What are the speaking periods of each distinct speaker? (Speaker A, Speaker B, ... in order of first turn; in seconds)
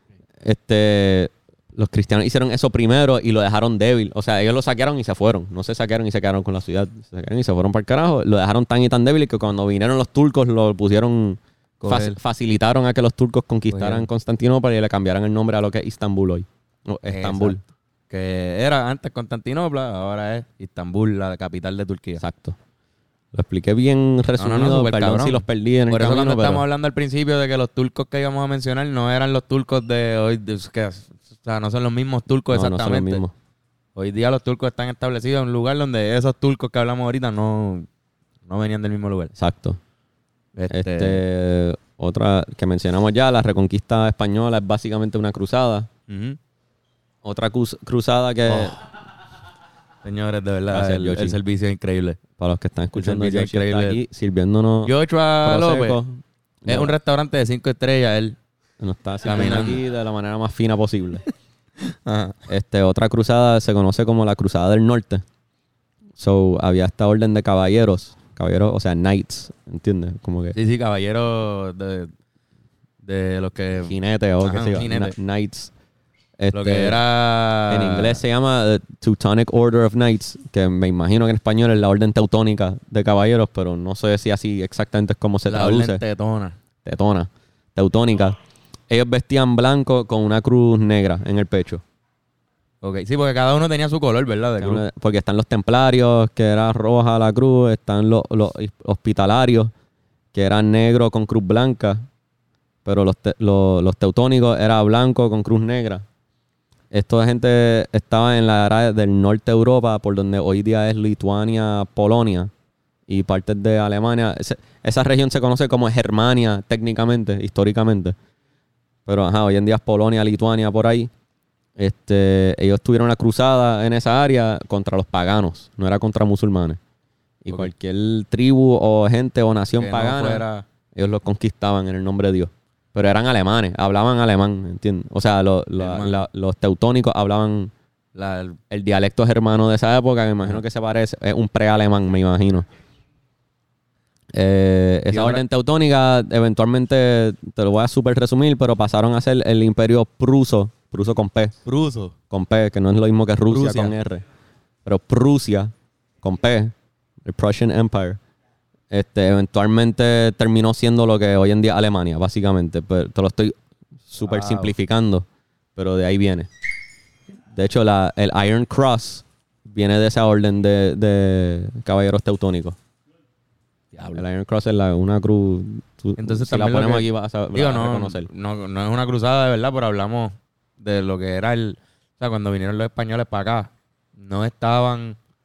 Speaker A: 0.4-17.6, 22.2-22.6, 23.3-26.6, 32.5-33.3, 39.3-39.8, 40.7-45.9, 47.2-48.8, 50.7-51.4, 52.4-54.9, 55.4-56.9, 58.8-61.2, 62.5-65.2, 66.2-70.5, 73.8-75.7, 76.4-77.0, 77.7-86.0, 86.8-88.4, 88.9-91.8, 94.6-99.7, 100.3-102.0, 102.8-106.0, 106.9-112.5, 113.1-118.1, 119.0-121.1, 121.8-126.8, 127.4-130.4, 130.9-137.7, 138.7-142.7, 144.3-151.5, 152.3-154.2, 154.8-156.7, 157.2-158.2, 158.9-163.5, 164.1-166.5, 167.5-172.8, 174.1-178.3
Speaker B: 11.8-12.2, 13.7-14.1, 17.1-22.2, 24.4-33.2, 34.0-37.9, 38.5-39.3, 40.5-41.2, 46.1-46.4, 48.5-48.8, 50.0-52.2, 52.9-54.0, 54.9-56.0, 56.7-58.4, 59.2-59.8, 61.8-62.4, 70.5-72.1, 73.0-75.1, 76.5-78.2, 85.5-86.5, 92.8-94.8, 129.8-130.6, 135.8-136.2, 138.1-138.6, 145.1-145.4, 151.7-152.1, 153.5-153.9, 164.2-164.7, 173.9-174.2, 176.2-185.2